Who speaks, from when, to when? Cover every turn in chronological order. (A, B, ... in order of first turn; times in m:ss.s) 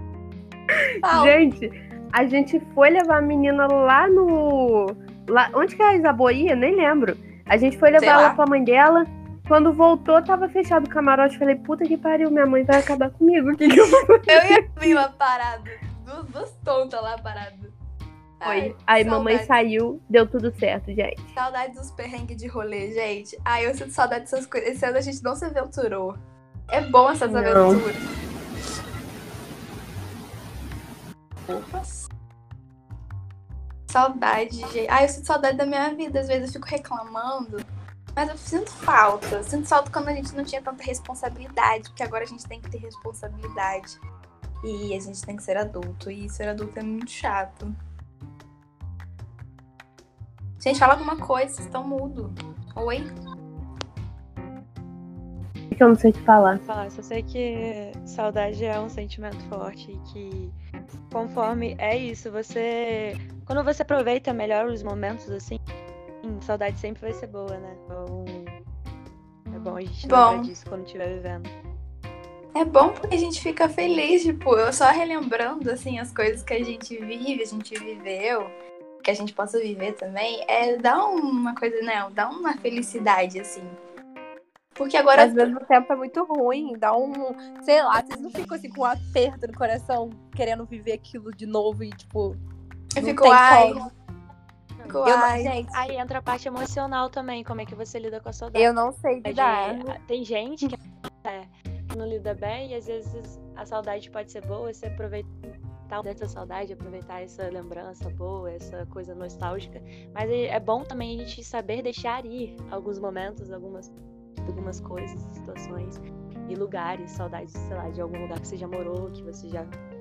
0:01.0-0:01.4 A
0:01.0-0:15.0 B
0:07.9-0:08.4 A
0:14.3-0:17.7 A
0:18.4-0:19.6 A
0:18.4-0:21.3 B
0:21.3-0:28.0 A
0:27.2-0:27.8 B
0:31.5-0:32.1 A
0:33.9-0:44.0 A
0:44.6-0:47.7 A
0:50.6-0:53.1 A
0:55.7-0:56.6 B
0:56.6-1:00.5 C
1:01.1-1:05.6 C
1:06.2-1:08.6 C
1:09.5-1:11.5 C
1:10.0-1:10.5 A
1:12.5-1:18.5 A
1:19.0-1:23.8 A
1:24.8-1:25.5 A
1:25.1-1:32.4 D
1:33.0-1:33.9 A
1:33.0-1:33.9 D
1:34.9-1:35.5 A
1:35.0-1:35.9 D
1:35.7-1:45.3 C
1:38.5-1:39.9 D
1:45.9-1:59.7 C